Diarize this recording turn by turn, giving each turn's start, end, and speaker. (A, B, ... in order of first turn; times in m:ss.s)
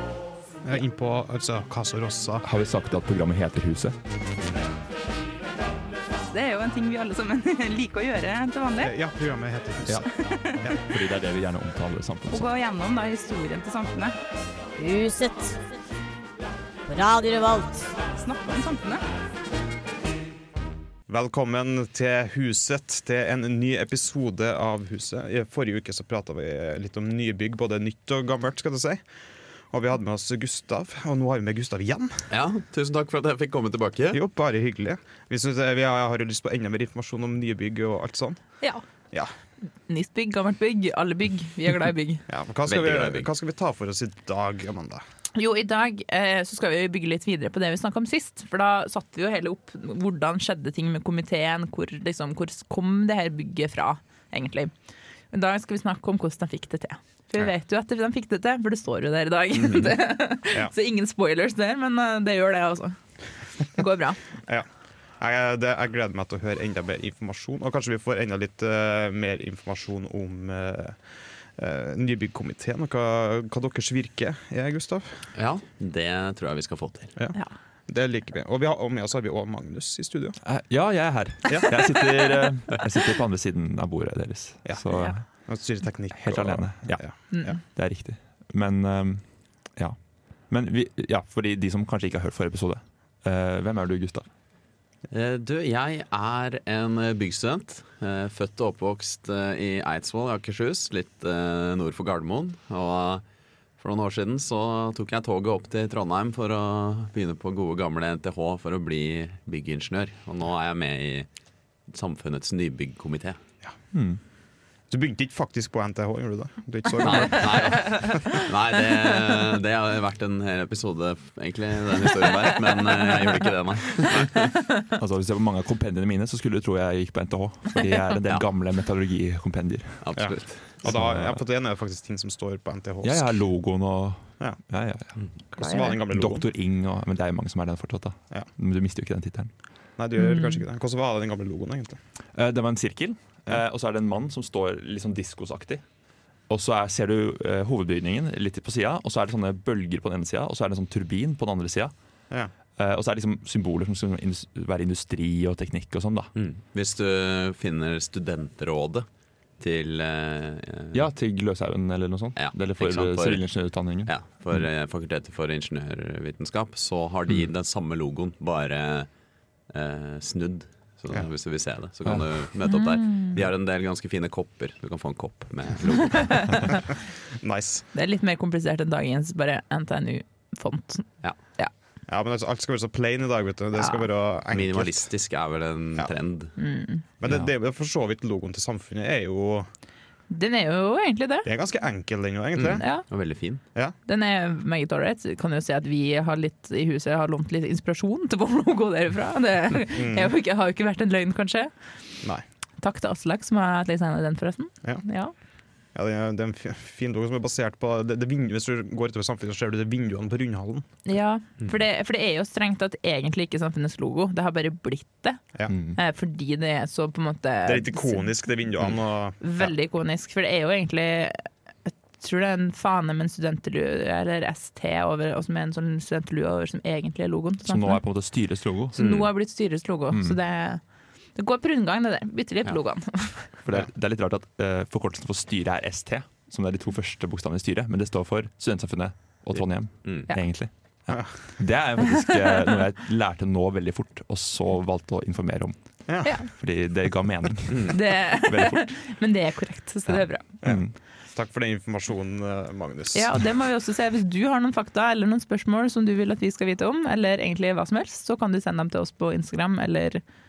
0:00.6-0:02.5 A
0:02.4-0:04.0 B
0:06.3-0:08.9 C
0:08.8-0:10.8 A
0:09.9-0:10.1 B
0:10.2-0:10.5 C
0:10.6-0:12.5 B
0:12.3-0:14.1 C
0:14.8-0:15.6 D
0:16.9-0:18.1 D
0:18.2-0:19.0 C
0:21.1-0:29.1 A
0:29.7-0:32.3 A
0:32.3-0:34.2 E
0:34.1-0:38.4 A
0:39.9-0:42.2 C
0:42.3-0:45.0 A
0:42.7-0:43.3 E
0:45.4-0:54.7 C
0:55.3-1:03.0 C
1:03.6-1:04.2 C
1:05.2-1:15.3 A
1:15.4-1:17.2 E
1:17.9-1:20.4 A
1:20.4-1:25.3 B
1:21.5-1:21.9 A
1:24.7-1:27.5 A
1:24.9-1:25.2 C
1:26.1-1:34.3 B
1:27.3-1:27.6 C
1:35.1-1:43.2 E
1:43.8-1:51.3 E
1:51.9-1:53.4 E
1:53.9-1:54.2 B
1:54.9-1:58.2 A
1:57.0-2:04.5 E
1:57.8-1:58.1 C
2:04.9-2:10.1 B
2:10.0-2:10.9 E
2:10.2-2:13.3 A
2:10.8-2:11.4 B
2:13.0-2:19.5 B
2:15.5-2:16.5 A
2:20.0-2:22.0 A
2:22.3-2:25.8 B
2:26.5-2:31.9 B
2:32.8-2:36.3 B
2:36.4-2:39.1 E
2:39.6-2:41.0 E
2:40.9-2:44.6 B
2:42.4-2:49.1 E
2:49.7-2:56.8 E
2:52.7-2:53.4 C
2:57.4-2:57.9 A
2:57.9-3:01.7 C
3:02.1-3:05.1 A
3:03.8-3:04.1 C
3:04.5-3:06.6 E
3:06.6-3:07.0 C
3:07.2-3:09.7 A
3:10.3-3:11.5 C
3:11.4-3:12.8 A
3:12.6-3:13.6 E
3:12.8-3:13.0 C
3:14.1-3:21.7 C
3:19.9-3:20.3 A
3:22.8-3:25.3 C
3:25.9-3:30.9 A
3:31.1-3:38.3 C
3:35.7-3:36.0 B
3:37.6-3:39.7 A
3:39.4-3:48.0 C
3:47.7-3:49.0 B
3:48.9-3:50.8 C
3:50.1-3:50.4 B
3:51.4-3:53.6 C
3:53.6-4:05.8 B
3:59.5-4:00.3 E
4:06.1-4:06.4 A
4:06.2-4:06.5 C
4:06.4-4:08.9 B
4:07.9-4:10.5 C
4:10.1-4:11.0 B
4:10.6-4:13.3 A
4:13.1-4:20.2 C